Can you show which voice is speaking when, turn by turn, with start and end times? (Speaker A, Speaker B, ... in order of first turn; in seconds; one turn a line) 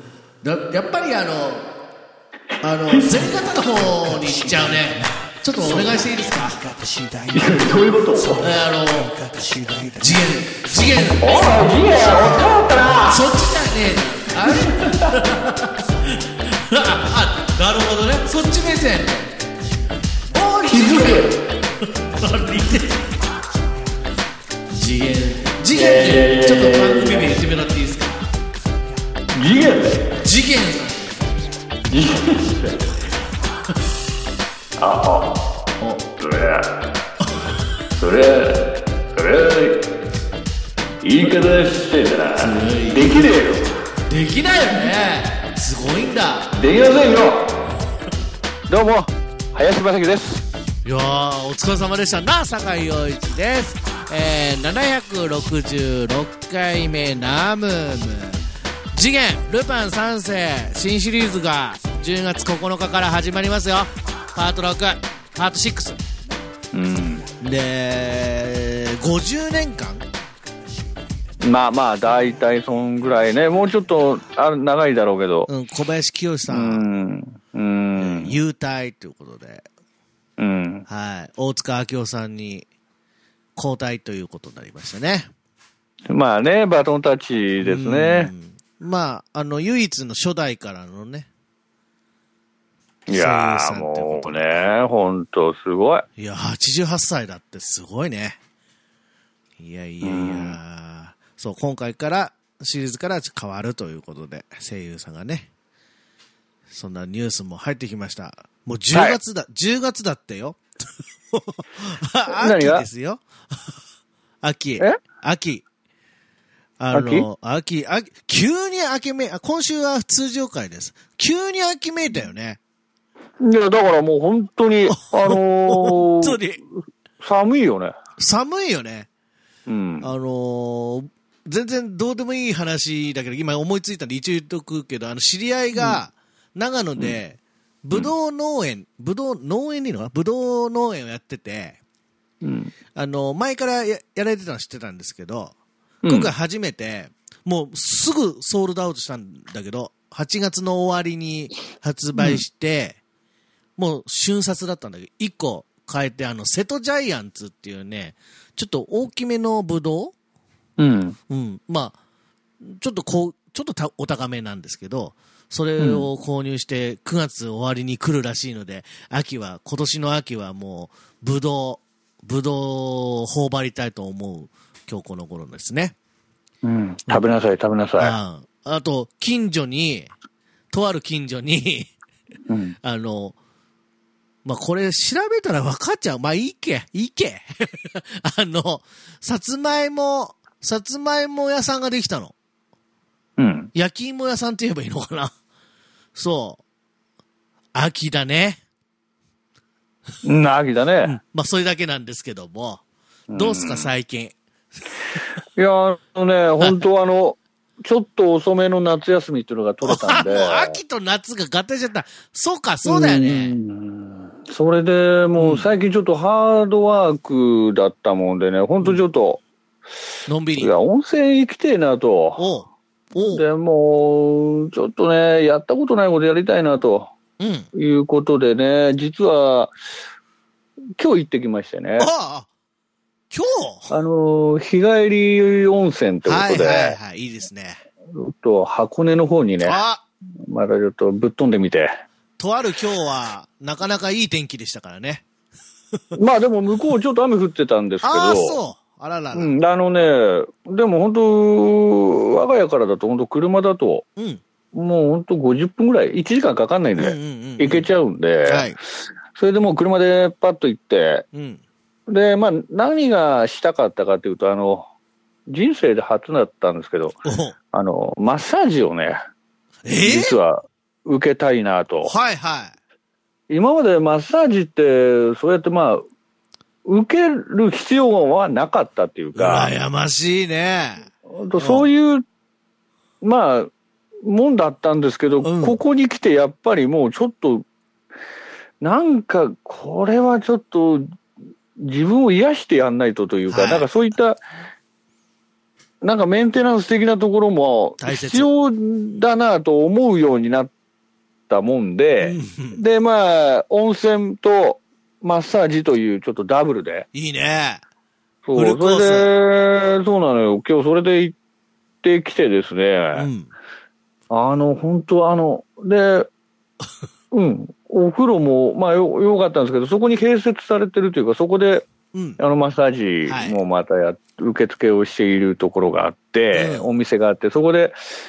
Speaker A: 0.4-1.7
Speaker A: 2.6-6.7
Speaker B: 7.3-8.4
Speaker A: 8.4-9.2
Speaker A: 9.9-11.4
Speaker B: 11.2-13.2
Speaker A: 13.1-19.3
Speaker B: 14.5-15.1
Speaker A: 20.3-23.1
Speaker B: 20.6-21.3
Speaker A: 24.7-28.2
Speaker B: 25.7-27.3
Speaker B: 29.4-30.1
Speaker A: 30.2-31.4
Speaker B: 31.9-32.8
Speaker B: 34.8-35.4
Speaker B: 36.2-36.7
Speaker B: 38.0-39.8
Speaker B: 41.0-43.7
Speaker A: 42.4-43.3
Speaker A: 44.1-46.6
Speaker B: 46.5-47.5
Speaker B: 48.7-50.4
Speaker A: 50.9-66.0
Speaker B: 66.7-67.2
Speaker A: 67.4-70.0
Speaker B: 71.4-75.5
Speaker A: 75.5-76.8
Speaker B: 76.5-78.3
Speaker A: 78.0-79.7
Speaker B: 80.4-80.9
Speaker A: 80.9-82.7
Speaker A: 83.6-85.3
Speaker B: 86.1-88.3
Speaker A: 87.6-91.3
Speaker B: 93.1-96.0
Speaker A: 93.1-94.7
Speaker A: 96.2-98.4
Speaker A: 99.6-105.5
Speaker B: 100.0-100.6
Speaker A: 106.7-110.6
Speaker A: 111.3-113.2
Speaker B: 112.3-112.9
Speaker A: 114.4-115.7
Speaker A: 116.8-122.6
Speaker B: 116.9-117.3
Speaker B: 123.4-126.7
Speaker A: 124.9-126.6
Speaker B: 127.2-127.9
Speaker A: 128.2-129.1
Speaker B: 129.7-130.1
Speaker A: 130.0-141.8
Speaker B: 135.7-136.0
Speaker B: 142.4-142.7
Speaker A: 142.9-145.5
Speaker B: 146.0-146.3
Speaker A: 146.1-153.0
Speaker B: 152.2-152.4
Speaker A: 153.8-160.1
Speaker B: 160.8-161.2
Speaker A: 161.3-162.0
Speaker A: 162.6-175.9
Speaker B: 165.8-166.1
Speaker B: 176.6-178.2
Speaker A: 178.0-180.1
Speaker A: 180.7-181.9
Speaker B: 182.5-182.8
Speaker A: 182.8-183.4
Speaker A: 184.4-192.3
Speaker B: 193.4-193.7
Speaker A: 193.7-195.3
Speaker A: 196.2-196.6
Speaker A: 197.8-198.6
Speaker B: 200.2-201.2
Speaker A: 201.0-202.8
Speaker B: 203.3-203.9
Speaker A: 203.3-204.8
Speaker B: 205.6-210.8
Speaker A: 209.8-213.6
Speaker B: 212.8-219.4
Speaker A: 215.4-215.7
Speaker A: 220.3-220.7
Speaker B: 220.6-222.5
Speaker A: 222.4-223.4
Speaker B: 223.2-227.1
Speaker A: 227.4-227.7
Speaker B: 227.8-229.7
Speaker B: 231.0-232.1
Speaker A: 232.0-232.5
Speaker A: 233.3-233.9
Speaker B: 233.9-237.0
Speaker A: 236.2-237.8
Speaker B: 238.2-239.8
Speaker A: 239.6-240.0
Speaker B: 240.4-241.9
Speaker A: 242.4-245.2
Speaker B: 246.2-248.6
Speaker A: 248.0-249.5
Speaker B: 249.3-254.0
Speaker A: 254.2-254.4
Speaker B: 254.7-258.8
Speaker A: 257.0-257.9
Speaker A: 258.5-258.8
Speaker B: 259.4-261.2
Speaker A: 261.3-261.6
Speaker B: 262.1-264.9
Speaker B: 265.5-267.2
Speaker A: 267.2-267.6
Speaker B: 267.7-269.2
Speaker A: 269.9-270.4
Speaker B: 270.0-272.1
Speaker A: 272.0-272.7
Speaker B: 273.5-276.0
Speaker B: 276.9-279.7
Speaker A: 279.4-281.9
Speaker B: 281.3-282.2
Speaker B: 283.2-283.7
Speaker B: 284.3-287.7
Speaker A: 285.4-285.8
Speaker B: 288.8-291.1
Speaker B: 291.8-294.4
Speaker A: 293.5-293.9
Speaker B: 296.0-300.7
Speaker A: 298.0-298.5
Speaker B: 301.5-307.1
Speaker A: 302.2-302.8
Speaker A: 307.1-307.8
Speaker B: 308.4-311.4
Speaker A: 308.6-309.3
Speaker B: 312.0-313.3
Speaker A: 313.1-313.5
Speaker B: 314.3-316.3
Speaker B: 317.3-321.9
Speaker A: 322.1-322.4
Speaker B: 322.4-328.0
Speaker A: 323.3-323.6
Speaker A: 326.5-326.9